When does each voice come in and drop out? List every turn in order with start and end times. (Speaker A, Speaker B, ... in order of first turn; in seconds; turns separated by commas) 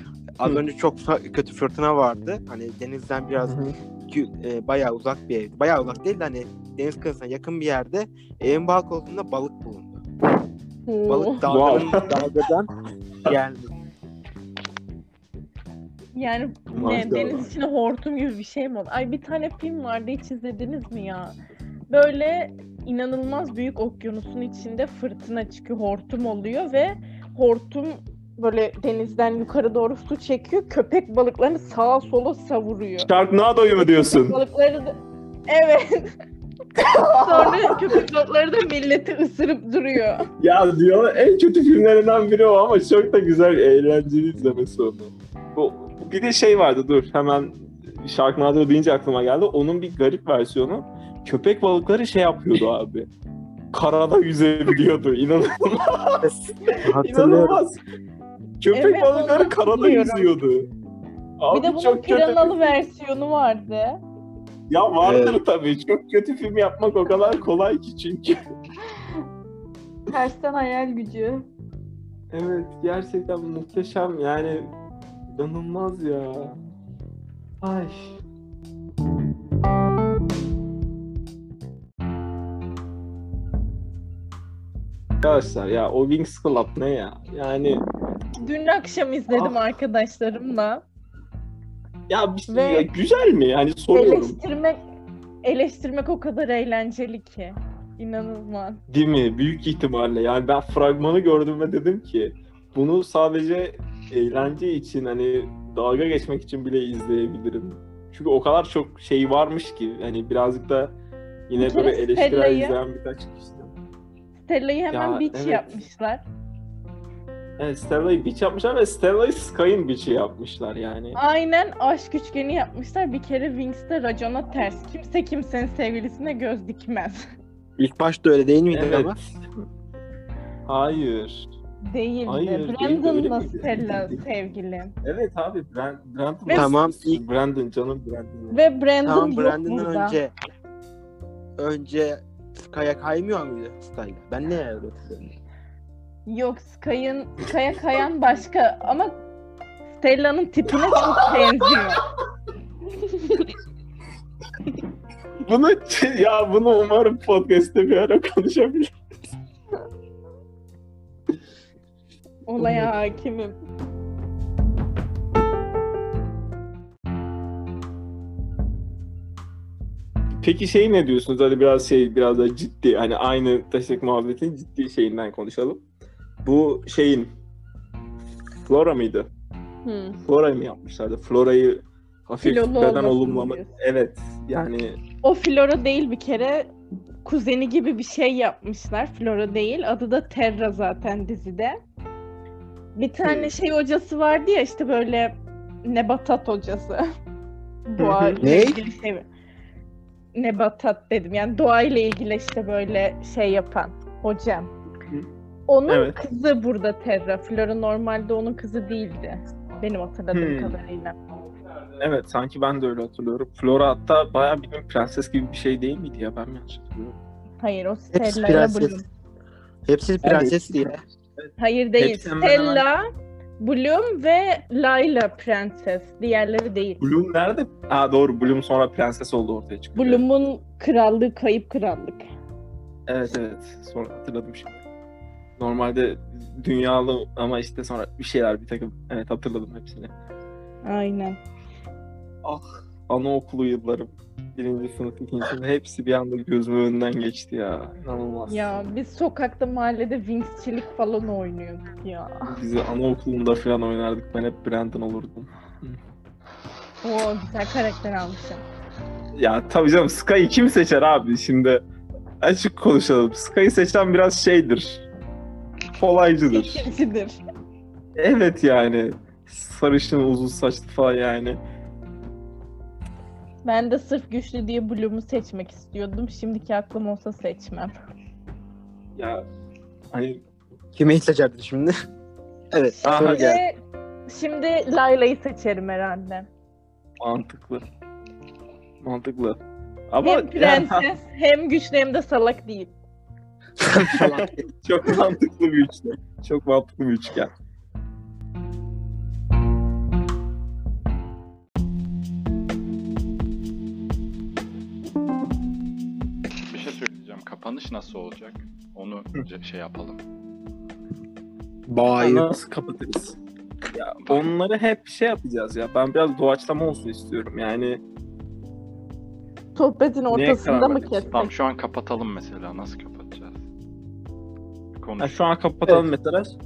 Speaker A: 0.4-3.5, Speaker B: 3.4-3.7, Speaker A: 4.1-10.0, Speaker C: 10.9-11.4, Speaker A: 11.1-12.7, Speaker B: 11.5-12.2, Speaker A: 13.2-13.7, Speaker C: 16.1-21.3, Speaker B: 16.7-17.5, Speaker C: 21.9-33.1, Speaker B: 33.0-34.4, Speaker C: 33.8-35.0, Speaker C: 35.5-36.1, Speaker B: 36.8-37.7, Speaker C: 37.2-40.2, Speaker B: 40.4-53.1, Speaker B: 53.7-57.8, Speaker A: 56.2-57.6, Speaker B: 58.6-60.7, Speaker C: 58.7-60.3, Speaker B: 61.4-62.7, Speaker C: 61.5-64.0, Speaker B: 64.7-68.4, Speaker A: 65.0-65.4, Speaker C: 70.1-71.4, Speaker B: 72.3-74.7, Speaker B: 75.3-76.6, Speaker B: 77.6-78.2, Speaker B: 85.2-87.8, Speaker C: 88.4-90.8, Speaker B: 89.3-89.6, Speaker B: 92.1-94.4, Speaker C: 92.5-92.9, Speaker C: 93.9-94.8, Speaker C: 95.4-98.8, Speaker B: 98.9-111.0, Speaker B: 111.5-113.7, Speaker C: 111.6-112.8, Speaker C: 114.4-116.2, Speaker B: 114.9-115.8, Speaker B: 117.6-121.2, Speaker C: 121.2-127.2, Speaker A: 127.8-129.2, Speaker B: 128.7-129.4, Speaker B: 130.7-131.5, Speaker C: 131.9-134.9, Speaker B: 132.2-134.2, Speaker B: 135.0-138.6, Speaker A: 136.5-137.2, Speaker C: 138.5-140.2, Speaker A: 139.0-140.3, Speaker A: 141.6-145.3, Speaker C: 146.3-149.1, Speaker C: 149.9-152.0, Speaker C: 153.1-153.5, Speaker B: 155.4-158.9, Speaker C: 162.5-163.6, Speaker B: 162.6-162.9, Speaker B: 170.4-175.8, Speaker B: 176.4-177.3, Speaker B: 178.6-179.3, Speaker C: 179.8-180.2, Speaker B: 180.2-185.0, Speaker C: 182.4-183.7, Speaker C: 185.2-186.7, Speaker C: 187.2-191.7, Speaker C: 192.9-195.3, Speaker B: 193.2-193.5, Speaker C: 195.8-197.0, Speaker C: 197.9-199.2, Speaker B: 198.0-198.4, Speaker A: 198.4-198.8, Speaker C: 200.3-204.7, Speaker C: 205.7-211.1, Speaker B: 205.9-206.2, Speaker B: 210.3-210.8, Speaker B: 212.0-217.2, Speaker C: 217.6-219.0, Speaker A: 218.1-219.0, Speaker A: 219.8-221.0, Speaker B: 220.2-222.8, Speaker C: 221.6-223.0, Speaker C: 223.6-227.0, Speaker B: 227.0-230.2, Speaker C: 229.9-232.2, Speaker B: 233.1-234.8, Speaker B: 235.6-240.1, Speaker C: 240.8-241.4, Speaker B: 242.4-248.9, Speaker C: 248.5-252.4, Speaker B: 252.5-256.0, Speaker C: 257.0-258.6, Speaker B: 259.4-261.8, Speaker B: 262.4-265.1, Speaker B: 266.0-266.9, Speaker C: 266.5-267.4, Speaker B: 268.2-271.6, Speaker C: 273.6-277.9, Speaker B: 279.1-279.4, Speaker B: 280.1-280.4, Speaker A: 280.9-281.9, Speaker A: 282.7-283.6, Speaker C: 283.0-283.7, Speaker B: 283.1-283.5, Speaker C: 284.3-286.5, Speaker B: 287.2-287.8, Speaker B: 289.0-289.6, Speaker B: 290.1-291.1, Speaker C: 290.2-292.9, Speaker A: 293.8-294.6, Speaker B: 294.2-297.5, Speaker D: 306.7-310.2, Speaker A: 311.9-312.5, Speaker B: 312.2-313.4, Speaker B: 313.9-318.0, Speaker D: 314.2-314.5, Speaker C: 319.7-321.5, Speaker B: 320.3-321.3, Speaker D: 321.3-323.6, Speaker D: 325.0-325.4, Speaker B: 325.2-326.5